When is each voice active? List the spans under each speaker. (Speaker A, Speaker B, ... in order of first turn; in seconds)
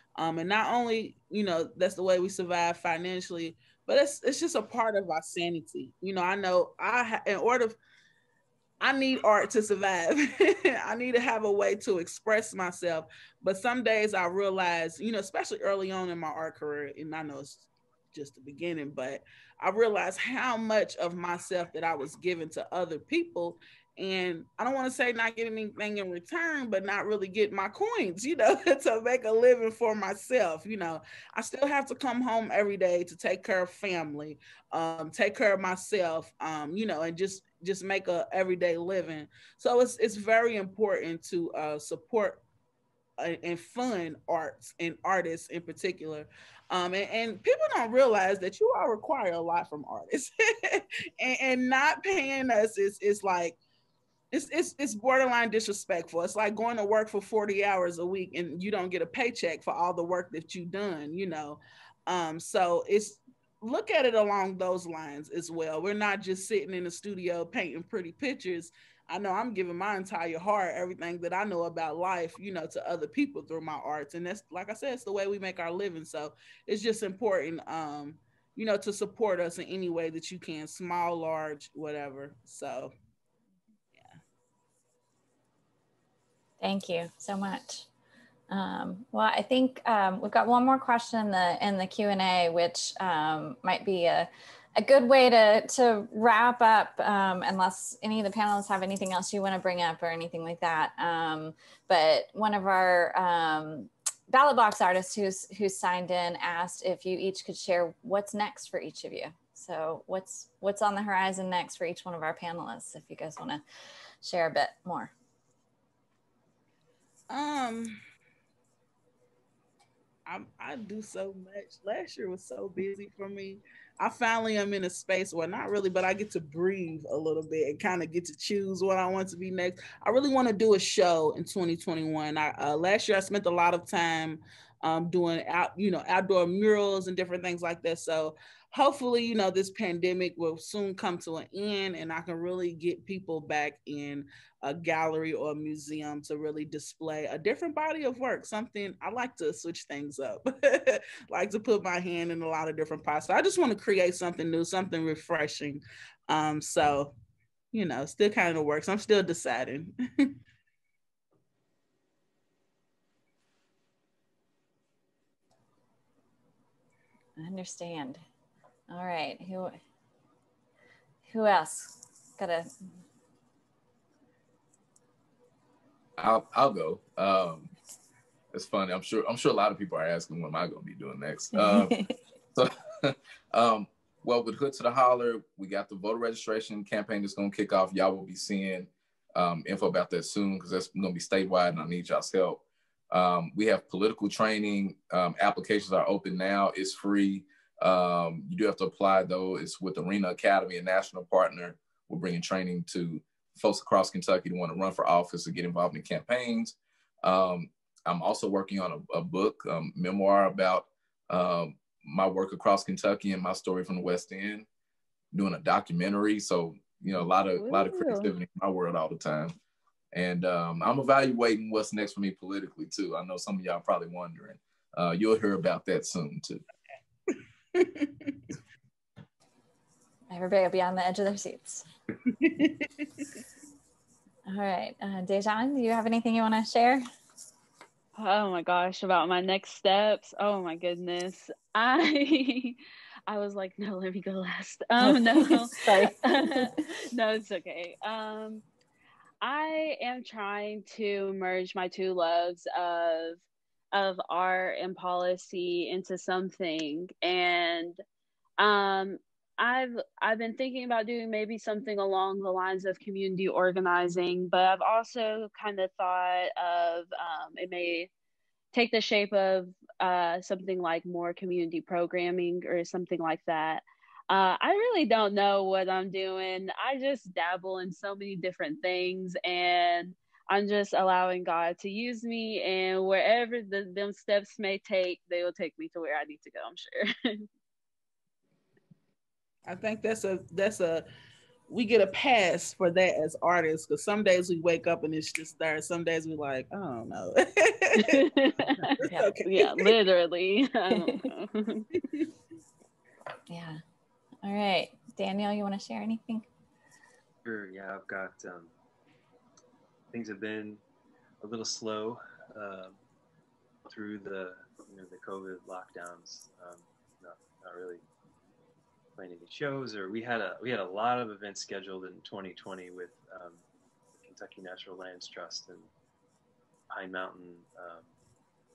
Speaker A: 0.2-7.8, 8.8-42.4, 43.2-53.6, 54.3-82.9, 117.3-118.0, 120.3-157.1, 157.7-160.3, 227.3-228.4, 232.3-233.3, 289.7-291.1, 291.7-299.9
Speaker B: 86.6-87.9, 88.5-113.6, 114.2-115.1, 167.4-168.2, 168.9-169.8, 171.3-172.8, 181.5-182.1, 230.3-231.9, 234.5-237.0, 245.0-246.8, 299.1-299.3, 301.0-301.2, 303.5-303.8, 304.4-306.5
Speaker C: 176.2-177.7, 178.5-182.0, 182.5-214.7, 215.3-219.5, 220.1-226.6
Speaker D: 217.6-218.3, 238.2-248.6, 249.4-253.4, 253.9-258.0, 258.6-268.1, 268.7-287.5, 298.0-301.9
Speaker E: 307.4-308.7, 310.1-310.8, 311.4-313.0, 313.9-318.0, 319.2-325.9, 326.9-328.1